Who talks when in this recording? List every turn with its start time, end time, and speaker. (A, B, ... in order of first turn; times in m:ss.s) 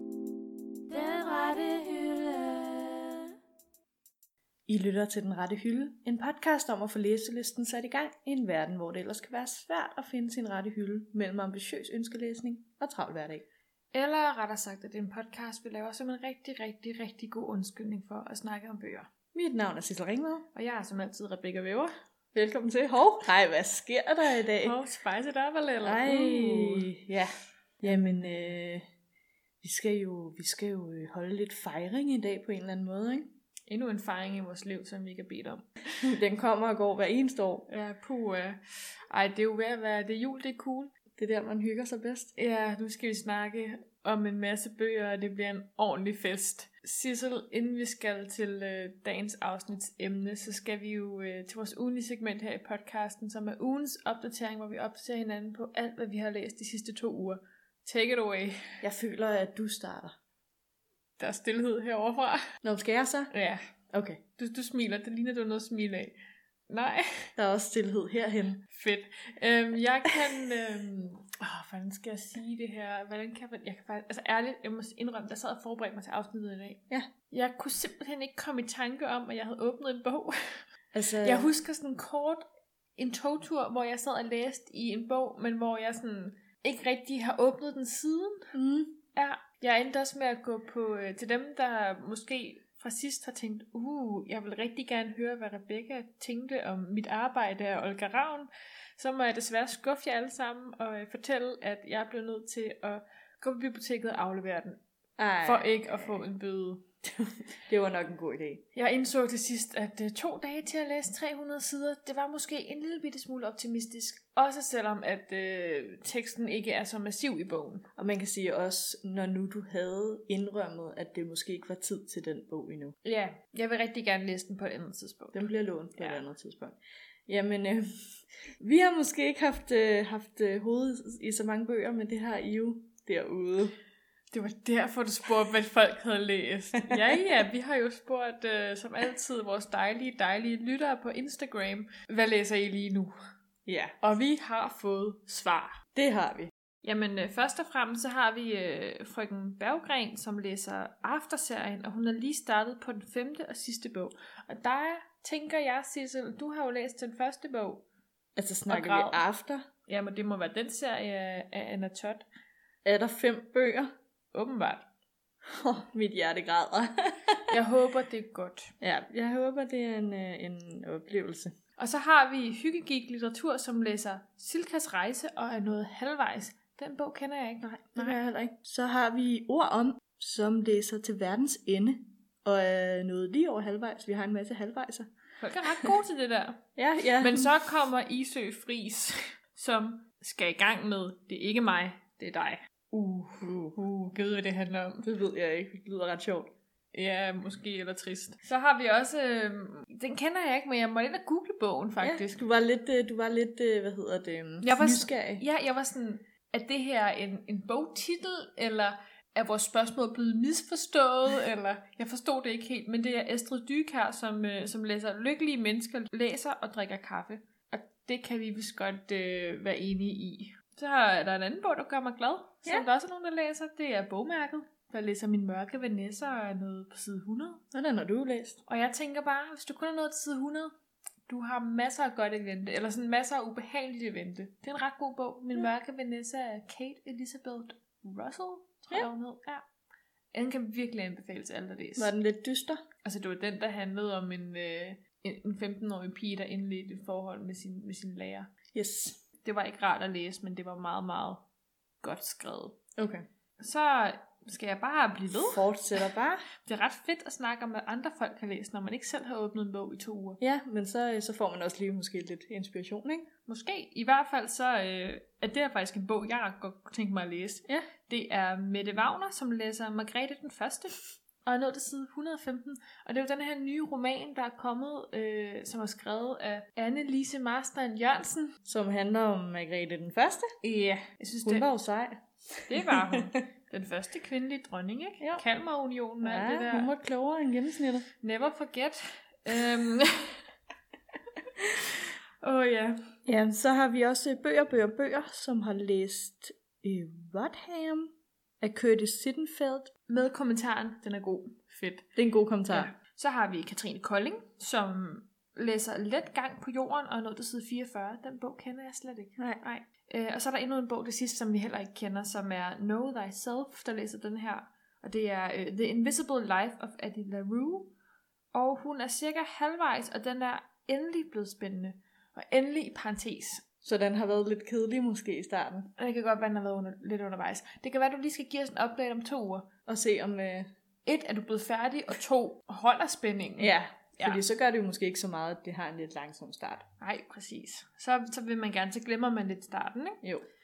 0:00.9-0:03.3 A
0:04.7-0:13.5 B
0:13.9-0:19.1 C
0:19.3-0:20.5 B
0:20.5-0:21.9 C
0:22.3-0:24.8 B
0:24.6-0:26.9 C
0:25.8-0:28.9 B
0:27.9-0:28.2 C
0:29.6-0:33.3 B
0:33.7-0:35.7 C
0:36.0-0:37.7 B
0:37.7-0:40.9 C
0:41.2-0:42.3 B
0:42.4-0:58.8 C
0:58.8-1:00.1 B
1:01.2-1:02.4 C
1:02.6-1:03.3 B
1:03.3-1:03.6 C
1:03.9-1:04.2 B
1:04.4-1:06.2 C
1:06.7-1:07.3 C
1:07.4-1:08.6 B
1:08.7-1:20.6 C
1:20.9-1:21.5 B
1:21.2-1:22.4 C
1:23.0-1:28.5 C
1:28.5-1:29.0 B
1:29.2-1:44.8 C
1:45.2-1:46.1 B
1:45.4-1:46.9 C
1:47.2-1:48.6 B
1:48.7-1:57.9 C
1:58.0-2:03.0 B
2:03.0-2:06.2 C
2:05.3-2:13.8 B
2:14.3-2:23.1 C
2:16.9-2:17.2 B
2:23.7-2:24.0 B
2:24.0-2:25.8 C
2:26.0-2:26.5 B
2:26.8-2:37.8 C
2:38.4-2:39.7 B
2:38.7-2:39.2 C
2:39.9-2:42.2 C
2:42.8-2:43.9 B
2:44.3-2:44.9 C
2:45.4-2:47.5 B
2:47.5-2:48.7 C
2:48.8-2:51.6 B
2:51.8-2:58.2 C
2:57.6-3:05.1 B
3:05.4-3:06.6 C
3:06.8-3:07.5 B
3:07.2-3:15.1 C
3:13.4-3:13.8 B
3:15.0-3:16.5 B
3:16.9-3:22.4 C
3:22.0-3:25.4 B
3:24.6-3:47.6 C
3:47.7-3:48.6 B
3:48.7-3:50.7 C
3:51.3-3:59.6 C
4:00.3-4:02.1 C
4:02.0-4:02.8 B
4:03.0-4:08.5 C
4:08.7-4:09.2 B
4:09.4-4:11.4 C
4:12.0-4:12.8 C
4:13.0-4:13.2 B
4:13.6-4:15.6 C
4:15.3-4:16.5 B
4:16.6-4:20.4 C
4:20.4-4:23.3 B
4:23.5-4:38.5 C
4:38.6-4:40.5 B
4:40.6-4:41.7 C
4:41.4-4:43.2 B
4:42.7-4:46.9 C
4:46.2-4:48.1 B
4:48.2-4:50.4 C
4:52.4-4:53.0 C
4:53.3-4:59.9 B
5:00.1-5:02.1 C
5:02.2-5:02.9 B
5:02.7-5:17.9 C
5:18.5-5:23.6 C
5:23.8-5:25.9 B
5:26.0-5:29.7 C
5:29.9-5:30.7 B
5:31.1-5:34.4 C
5:33.6-5:36.8 B
5:37.0-5:40.2 C